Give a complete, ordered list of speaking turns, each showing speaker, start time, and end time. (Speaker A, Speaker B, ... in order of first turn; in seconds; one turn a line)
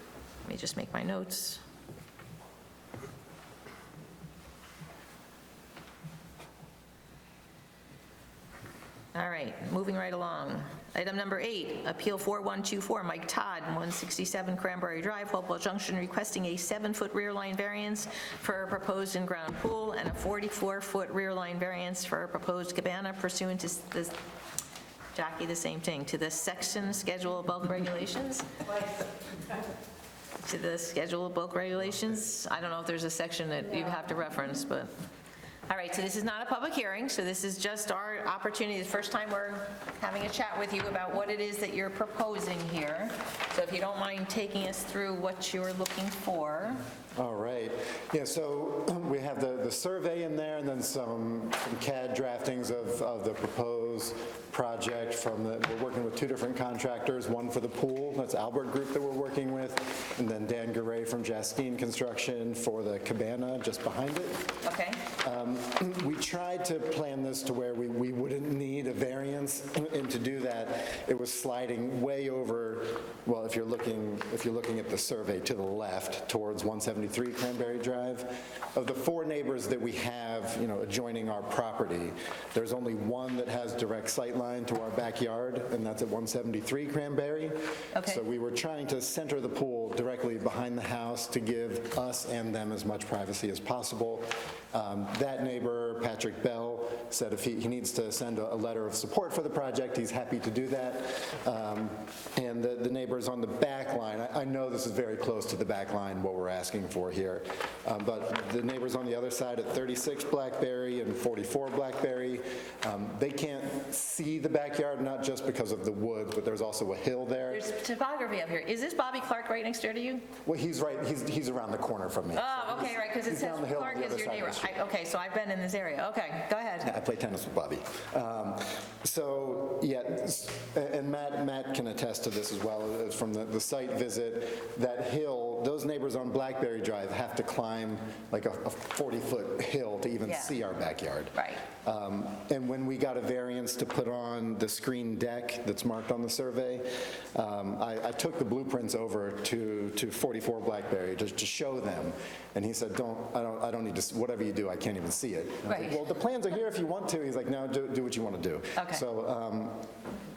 Speaker A: 0.4-1.6
Speaker A: 9.1-24.1
Speaker A: 25.1-28.6
Speaker A: 30.4-34.9
Speaker A: 35.7-46.8
Speaker B: 47.1-64.5
Speaker A: 64.6-65.1
Speaker B: 65.2-117.7
Speaker A: 87.9-88.2
Speaker A: 117.5-120.3
Speaker B: 120.4-124.7
Speaker A: 122.3-126.9
Speaker B: 126.8-159.9
Speaker A: 140.2-140.6
Speaker A: 141.3-141.6
Speaker A: 155.7-156.0
Speaker A: 158.8-159.0